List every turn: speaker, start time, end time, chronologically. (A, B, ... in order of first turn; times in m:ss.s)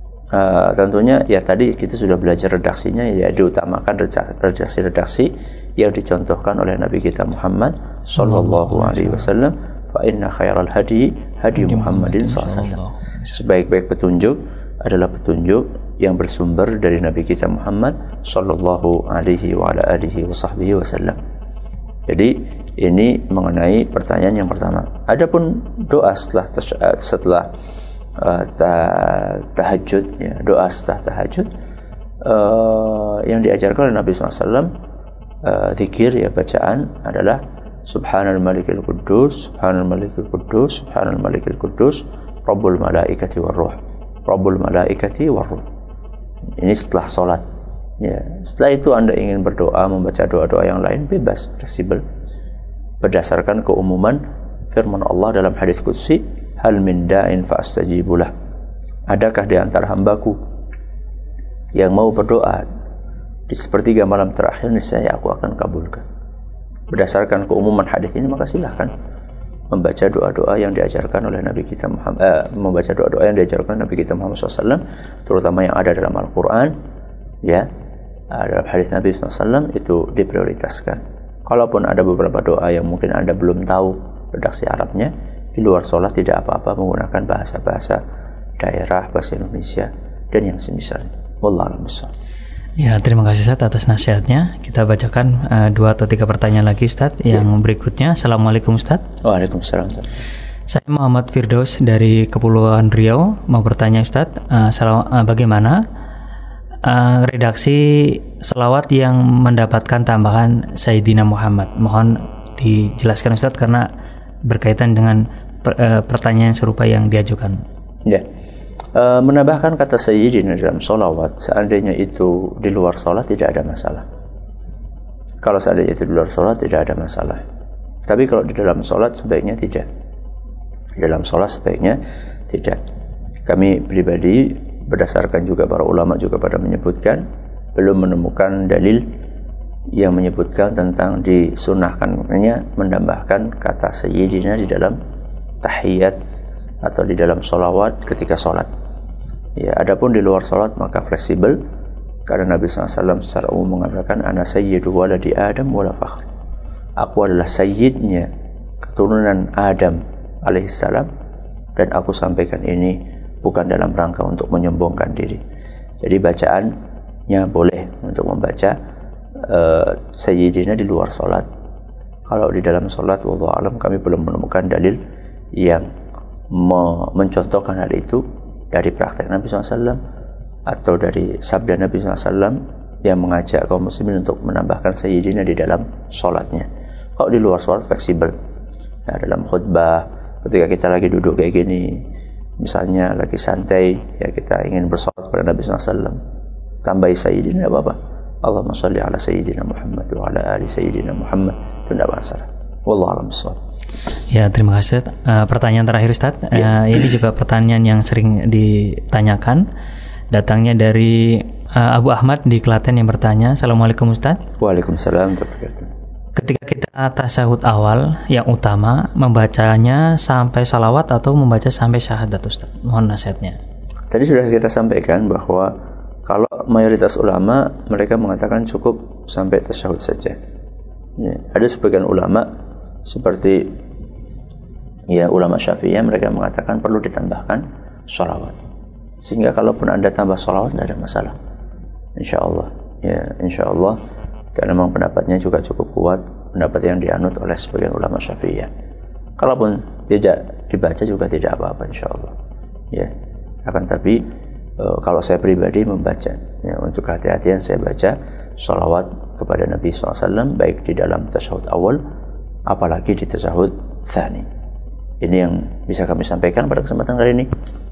0:00.3-0:21.2 A
0:08.2-0:09.2 B
0:11.6-0:12.9 B
0:22.1-0:27.5 A
0:28.2-0:31.5 A
0:32.2-0:34.7 A
0:35.4-0:45.6 A
0:46.6-0:47.4 A
0:48.0-0:52.0 A
0:53.0-0:58.3 A
0:59.1-1:00.4 A
1:01.8-1:02.7 A
1:03.5-1:06.0 A
1:06.9-1:08.9 A
1:09.7-1:16.7 A
1:18.3-1:28.0 A
1:28.6-1:32.1 A
1:32.8-1:39.0 B
1:39.2-1:40.1 A
1:40.7-1:45.8 B
1:46.8-1:53.9 B
1:54.4-1:57.6 B
1:58.9-2:04.0 A
2:05.4-2:07.4 A
2:08.1-2:09.9 A
2:11.0-2:12.8 A
2:13.4-2:17.2 A
2:17.8-2:19.0 A
2:20.0-2:25.0 A
2:25.6-2:26.2 A
2:26.8-2:28.7 A
2:29.6-2:31.6 A
2:32.3-2:36.3 A
2:37.0-2:38.3 A
2:38.8-2:41.1 A
2:41.8-2:45.4 A
2:46.0-2:46.7 A
2:47.3-2:48.8 A
2:49.4-2:51.4 A
2:52.3-2:55.0 A
2:55.6-2:55.8 A
2:56.5-3:00.0 A
3:00.7-3:08.3 A
3:09.1-3:12.0 A
3:12.6-3:16.2 A
3:16.8-3:23.6 A
3:24.3-3:29.7 B
3:30.3-3:34.4 B
3:34.6-3:35.9 A
3:36.4-3:43.6 B
3:44.1-3:45.7 A
3:46.2-3:50.4 A
3:51.2-3:52.5 A
3:53.0-3:53.7 A
3:55.1-3:58.6 A
3:59.2-4:01.3 A
4:02.2-4:04.0 A
4:04.5-4:08.7 A
4:09.4-4:12.3 A
4:13.6-4:14.2 A
4:14.8-4:22.0 A
4:22.7-4:24.5 A
4:25.2-4:27.5 A